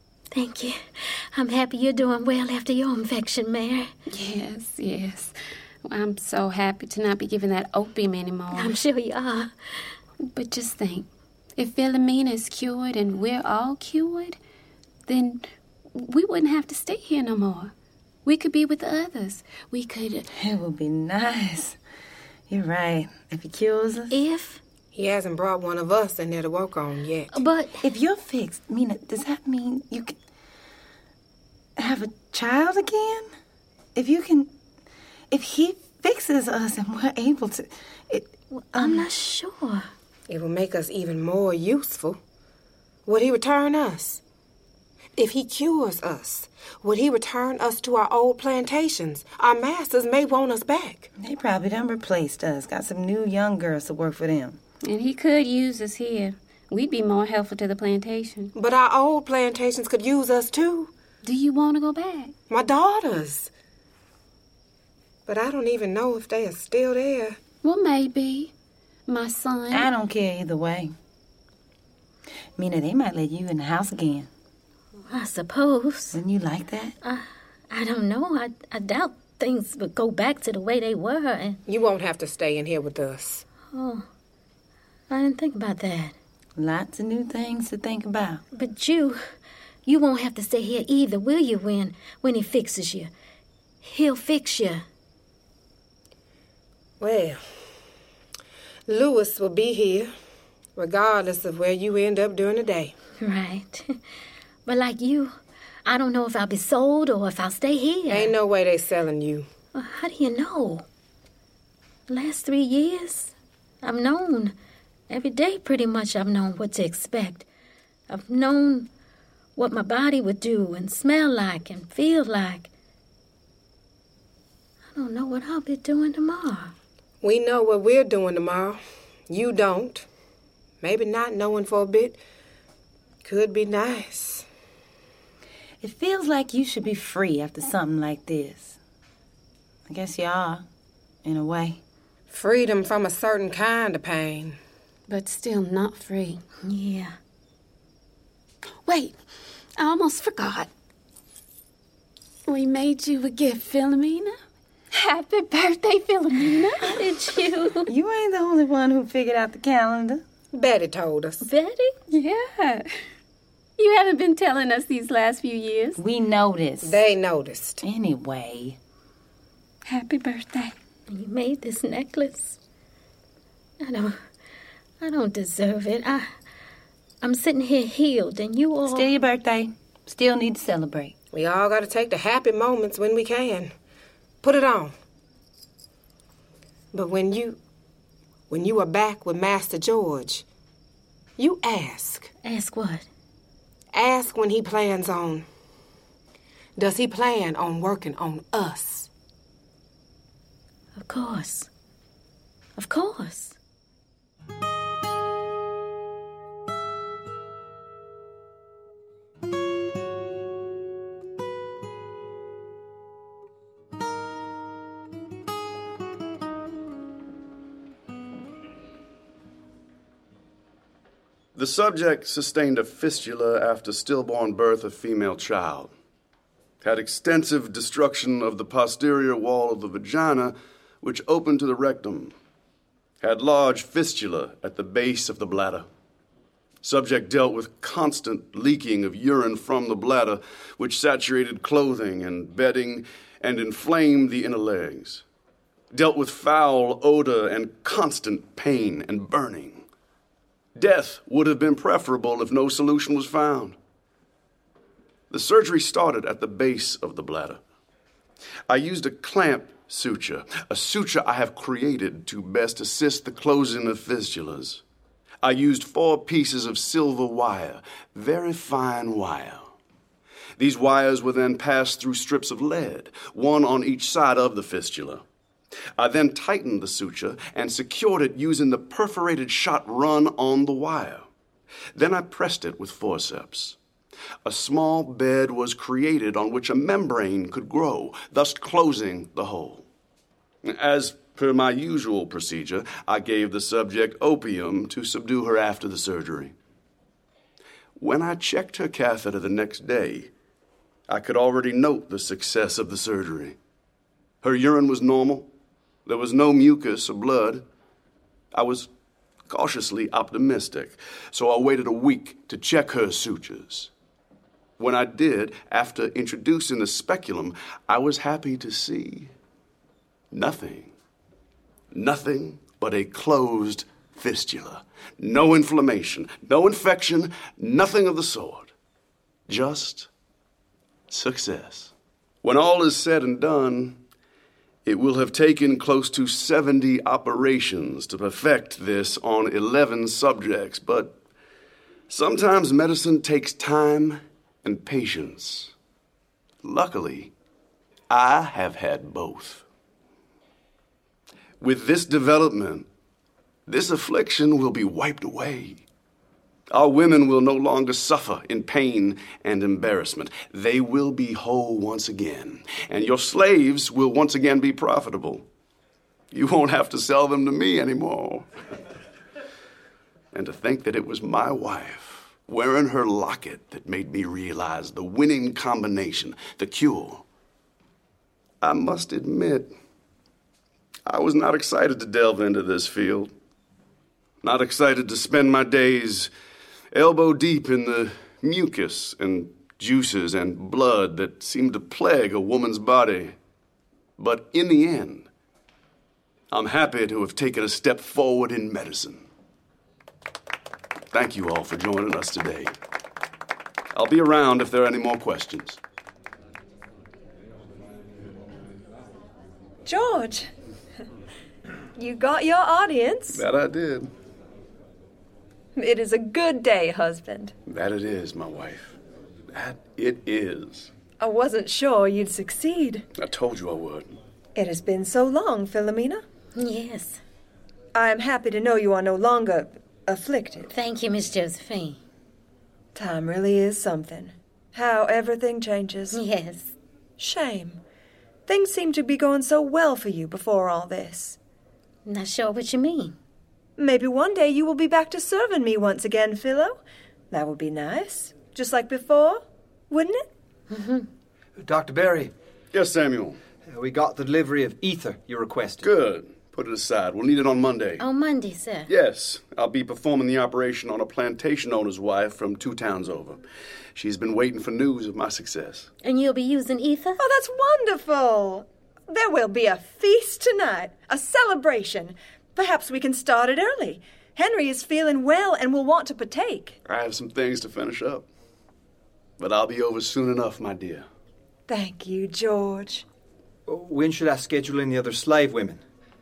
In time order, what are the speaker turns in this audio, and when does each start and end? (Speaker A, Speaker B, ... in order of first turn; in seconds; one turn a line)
Speaker A: 0.3-3.9
Speaker B: 4.1-8.8
Speaker A: 8.5-9.5
Speaker B: 10.2-14.4
Speaker B: 15.1-17.7
Speaker B: 18.2-20.3
Speaker C: 20.3-21.8
Speaker C: 22.5-24.2
Speaker A: 24.1-24.6
Speaker D: 24.9-27.4
Speaker A: 27.3-27.8
Speaker C: 27.8-30.1
Speaker C: 31.8-33.3
Speaker C: 34.0-34.5
Speaker C: 35.3-39.1
Speaker A: 38.5-39.9
Speaker D: 40.3-42.2
Speaker D: 43.1-44.2
Speaker D: 45.2-51.1
Speaker C: 51.2-54.6
Speaker B: 54.8-58.5
Speaker D: 58.5-60.9
Speaker B: 61.2-62.3
Speaker D: 62.5-63.5
Speaker D: 65.3-67.4
Speaker B: 67.6-68.5
Speaker B: 69.1-69.9
Speaker C: 69.7-70.9
Speaker C: 72.6-74.3
Speaker A: 75.1-76.2
Speaker C: 76.1-77.0
Speaker A: 77.0-81.6
Speaker D: 81.7-83.5
Speaker A: 83.7-84.1
Speaker A: 85.1-86.1
Speaker C: 86.6-88.4
Speaker A: 88.5-89.2
Speaker A: 89.9-93.1
Speaker A: 93.8-94.8
Speaker D: 97.0-97.4
Speaker D: 98.9-100.1
Speaker D: 100.8-102.9
Speaker A: 103.2-104.0
Speaker A: 104.7-108.3
Speaker D: 108.1-109.5
Speaker A: 109.7-110.8
Speaker A: 112.1-114.5
Speaker A: 115.1-117.5
Speaker A: 118.1-118.9
Speaker A: 119.6-122.7
Speaker A: 124.9-126.7
Speaker D: 127.2-130.1
Speaker D: 130.8-132.2
Speaker D: 133.2-134.5
Speaker C: 135.8-138.8
Speaker C: 139.9-140.6
Speaker C: 141.2-141.8
Speaker D: 142.3-144.6
Speaker B: 145.1-146.4
Speaker A: 146.6-147.2
Speaker B: 148.8-149.2
Speaker B: 149.8-150.7
Speaker B: 152.5-154.4
Speaker B: 154.9-157.0
Speaker A: 156.8-157.9
Speaker C: 157.9-160.2
Speaker D: 160.5-161.4
Speaker A: 161.4-161.9
Speaker B: 162.1-162.9
Speaker B: 163.8-166.0
Speaker C: 166.0-167.0
Speaker D: 166.8-167.8
Speaker C: 167.8-168.8
Speaker B: 169.8-170.7
Speaker A: 171.1-172.6
Speaker A: 173.8-174.2
Speaker A: 175.0-176.3
Speaker A: 177.2-179.1
Speaker C: 178.9-181.2
Speaker D: 181.3-183.7
Speaker D: 184.4-184.9
Speaker D: 186.9-187.6
Speaker D: 188.5-190.4
Speaker D: 191.4-192.3
Speaker A: 192.4-193.1
Speaker D: 193.9-195.5
Speaker D: 196.8-199.1
Speaker A: 201.0-201.7
Speaker A: 202.8-203.6
Speaker E: 221.6-225.9
Speaker E: 226.8-232.3
Speaker E: 233.2-235.9
Speaker E: 236.8-245.2
Speaker E: 245.9-249.9
Speaker E: 250.8-253.8
Speaker E: 255.3-257.6
Speaker E: 258.7-264.8
Speaker E: 265.4-269.7
Speaker E: 270.6-275.2
Speaker E: 276.0-281.3
Speaker E: 281.9-283.8
Speaker E: 284.4-289.9
Speaker E: 290.6-296.5
Speaker E: 298.0-300.3
Speaker E: 301.1-303.6
Speaker E: 304.4-305.5
Speaker E: 306.1-307.6
Speaker E: 308.5-308.9
Speaker E: 309.5-313.9
Speaker E: 314.8-319.3
Speaker E: 320.3-320.9
Speaker E: 321.9-328.7
Speaker E: 329.5-330.1
Speaker E: 331.1-331.9
Speaker E: 332.4-334.0
Speaker E: 334.9-341.2
Speaker E: 342.1-345.7
Speaker E: 346.6-347.3
Speaker E: 348.1-349.6
Speaker E: 351.6-352.9
Speaker E: 353.7-355.8
Speaker E: 356.7-365.4
Speaker E: 366.3-368.5
Speaker E: 370.3-377.2
Speaker E: 378.6-379.7
Speaker E: 381.1-383.3
Speaker E: 384.4-386.3
Speaker E: 386.9-393.4
Speaker E: 394.2-395.3
Speaker E: 396.5-399.2
Speaker E: 401.1-402.7
Speaker E: 403.9-405.8
Speaker F: 409.9-410.5
Speaker F: 412.0-413.4
Speaker E: 413.3-414.1
Speaker F: 415.8-417.5
Speaker E: 417.7-419.0
Speaker E: 419.5-420.9
Speaker F: 421.2-423.1
Speaker E: 423.2-424.1
Speaker F: 424.6-426.2
Speaker A: 426.6-427.2
Speaker F: 427.9-430.7
Speaker A: 430.7-432.0
Speaker F: 432.9-436.2
Speaker A: 436.1-436.7
Speaker F: 437.2-437.8
Speaker F: 438.5-441.4
Speaker A: 442.1-443.2
Speaker F: 443.8-450.3
Speaker A: 450.7-451.1
Speaker G: 451.6-452.3
Speaker E: 452.7-453.4
Speaker G: 453.7-455.9
Speaker E: 455.8-458.0
Speaker A: 458.0-458.9
Speaker E: 458.9-463.4
Speaker E: 463.9-465.9
Speaker A: 466.0-467.2
Speaker F: 467.2-476.8
Speaker E: 476.9-478.3
Speaker E: 479.4-481.1
Speaker F: 481.7-483.1
Speaker G: 483.7-485.8